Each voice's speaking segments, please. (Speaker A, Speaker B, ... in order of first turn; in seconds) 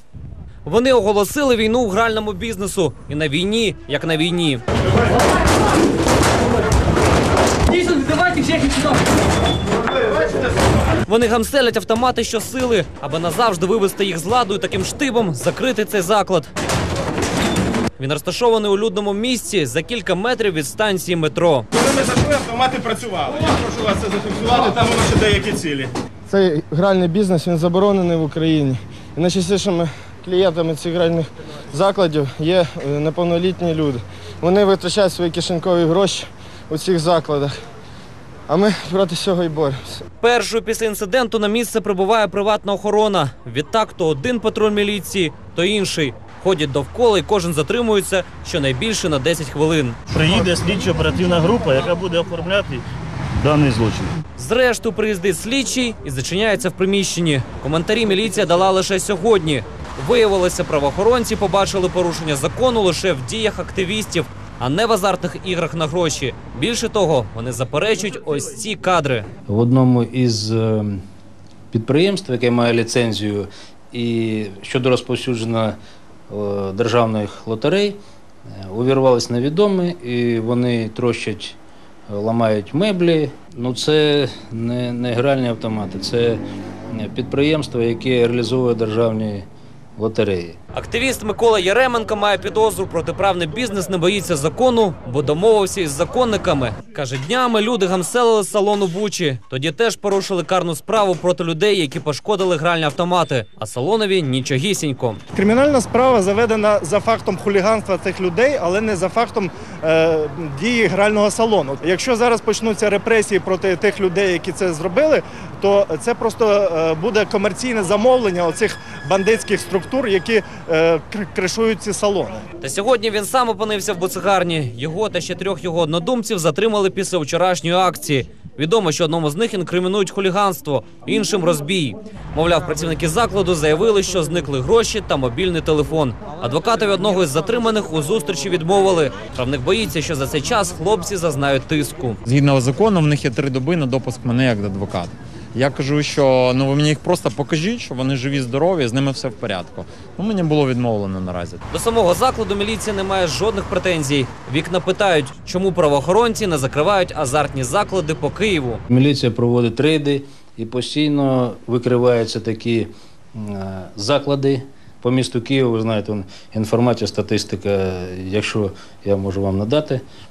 Speaker A: 0.7-4.6, 7.7-8.9, 11.1-16.5, 18.0-21.7, 40.2-50.0, 54.4-69.3, 90.7-105.2, 122.6-142.2, 151.7-158.8
Speaker B: 21.8-25.9
Speaker C: 26.3-37.5, 38.5-40.0
Speaker D: 50.1-52.8, 53.4-54.1
Speaker E: 69.5-71.0, 71.7-75.8, 76.3-78.0, 78.6-81.6, 82.1-89.4, 90.0-90.6, 158.9-170.0
Speaker F: 105.3-122.3
Speaker G: 142.2-151.6